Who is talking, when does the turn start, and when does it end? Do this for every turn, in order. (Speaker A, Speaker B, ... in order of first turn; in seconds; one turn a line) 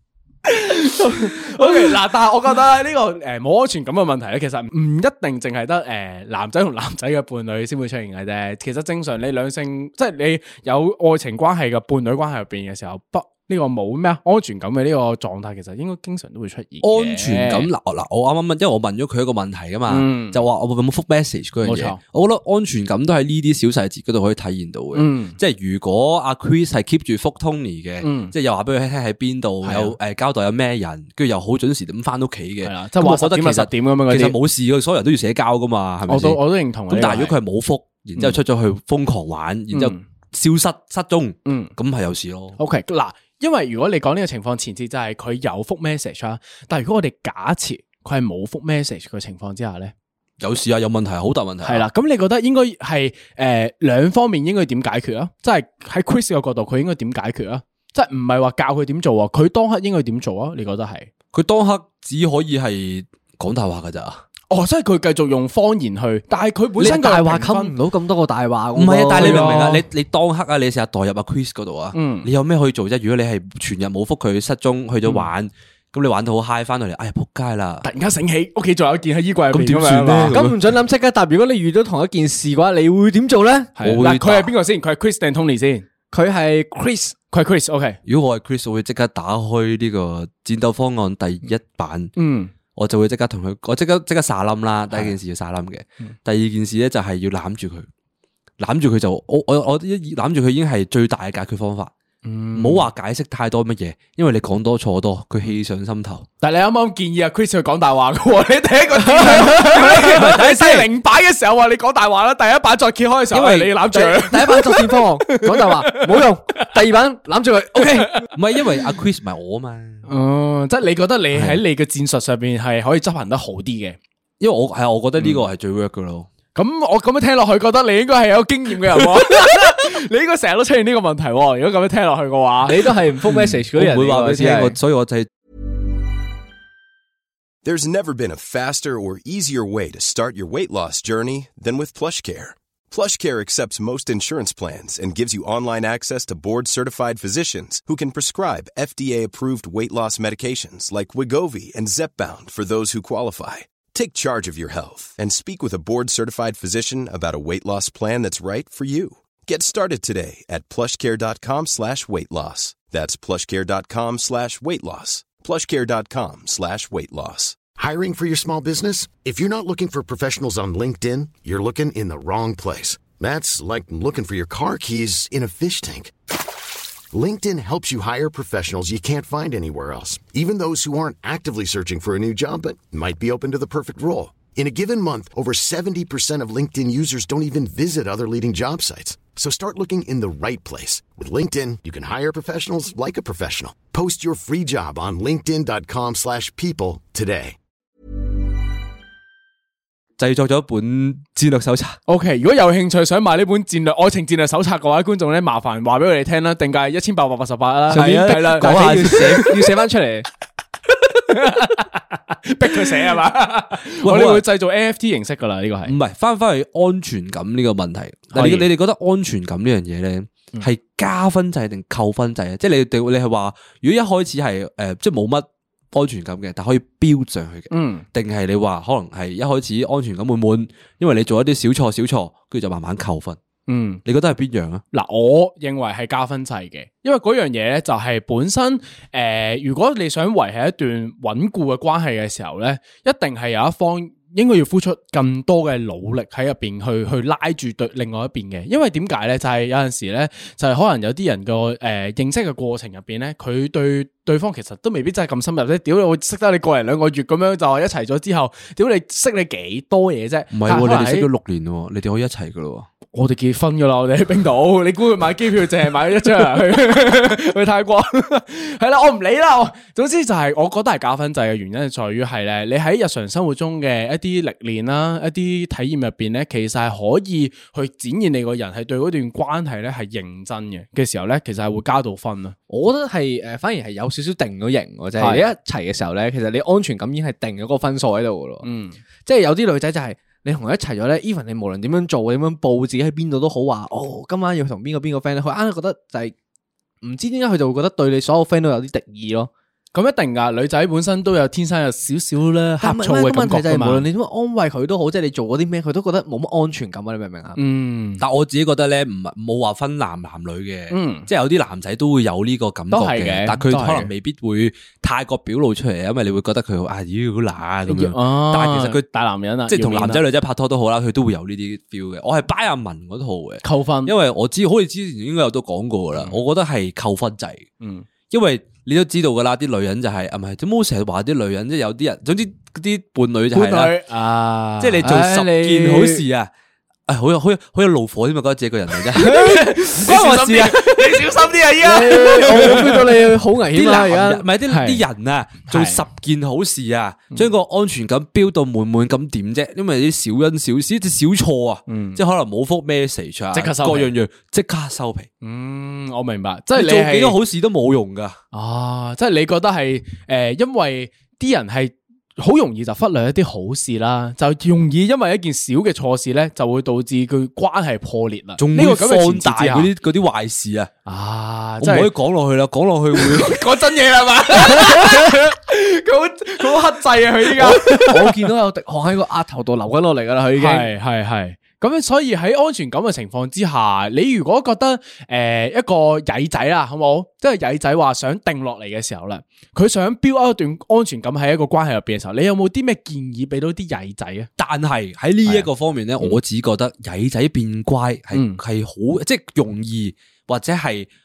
Speaker A: 0.5-17.7
Speaker B: 16.8-42.6
Speaker A: 19.9-20.4
Speaker A: 21.6-22.0
Speaker A: 24.9-25.4
Speaker A: 28.0-28.3
Speaker A: 29.6-29.9
Speaker A: 32.6-34.4
Speaker A: 36.1-37.4
Speaker A: 39.7-40.0
Speaker A: 41.5-41.7
Speaker A: 42.6-49.9
Speaker B: 50.4-51.8
Speaker A: 51.6-61.1
Speaker B: 61.3-64.2
Speaker A: 64.5-67.7
Speaker C: 66.8-69.8
Speaker B: 68.7-77.8
Speaker A: 69.2-69.8
Speaker A: 71.9-72.3
Speaker A: 75.0-75.3
Speaker A: 77.8-80.4
Speaker B: 79.5-80.6
Speaker C: 80.3-83.8
Speaker A: 83.8-85.8
Speaker B: 83.8-84.5
Speaker C: 86.1-87.2
Speaker A: 87.3-88.0
Speaker B: 88.0-92.1
Speaker A: 92.2-92.5
Speaker B: 92.7-97.9
Speaker B: 98.6-101.9
Speaker A: 102.2-102.8
Speaker B: 102.5-106.2
Speaker A: 106.4-116.8
Speaker B: 109.3-110.9
Speaker B: 113.3-113.8
Speaker C: 113.9-118.2
Speaker B: 118.3-120.1
Speaker A: 120.0-124.0
Speaker B: 121.3-121.6
Speaker B: 124.4-126.3
Speaker A: 125.2-125.5
Speaker A: 126.5-132.9
Speaker C: 132.6-134.8
Speaker B: 133.3-135.3
Speaker D: 137.6-167.6
Speaker E: 167.8-176.1
Speaker E: 177.1-197.6
Speaker B: 200.2-202.0
Speaker A: 202.1-209.5
Speaker B: 207.9-209.5
Speaker C: 207.9-210.3
Speaker A: 211.2-215.9
Speaker B: 214.0-214.4
Speaker B: 215.8-233.4
Speaker A: 218.3-218.7
Speaker A: 227.7-228.1
Speaker A: 233.7-234.0
Speaker B: 234.0-234.8
Speaker A: 234.9-261.3
Speaker B: 260.5-262.9
Speaker A: 263.1-282.6
Speaker C: 282.7-288.6
Speaker A: 285.2-285.5
Speaker A: 288.6-289.0
Speaker C: 289.2-296.3
Speaker C: 297.0-299.5
Speaker A: 299.9-304.1
Speaker C: 302.8-307.6
Speaker A: 307.6-308.2
Speaker B: 308.2-319.1
Speaker A: 310.9-311.3
Speaker A: 312.9-314.1
Speaker A: 317.9-320.2
Speaker B: 319.7-327.6
Speaker A: 323.6-324.1
Speaker A: 327.8-328.1
Speaker B: 328.3-333.9
Speaker A: 333.5-335.2
Speaker B: 334.8-336.5
Speaker C: 335.0-336.2
Speaker B: 337.1-341.3
Speaker A: 339.1-343.0
Speaker C: 341.8-344.4
Speaker B: 342.4-343.1
Speaker B: 343.7-355.3
Speaker A: 344.7-345.0
Speaker A: 345.7-346.0
Speaker A: 351.9-352.2
Speaker A: 353.5-354.1
Speaker A: 355.4-357.4
Speaker B: 356.7-358.4
Speaker A: 358.5-369.9
Speaker B: 368.6-370.9
Speaker A: 371.1-372.1
Speaker B: 371.8-373.7
Speaker A: 373.1-378.3
Speaker C: 377.6-380.9
Speaker A: 380.6-394.5
Speaker B: 394.6-401.1
Speaker A: 398.3-398.6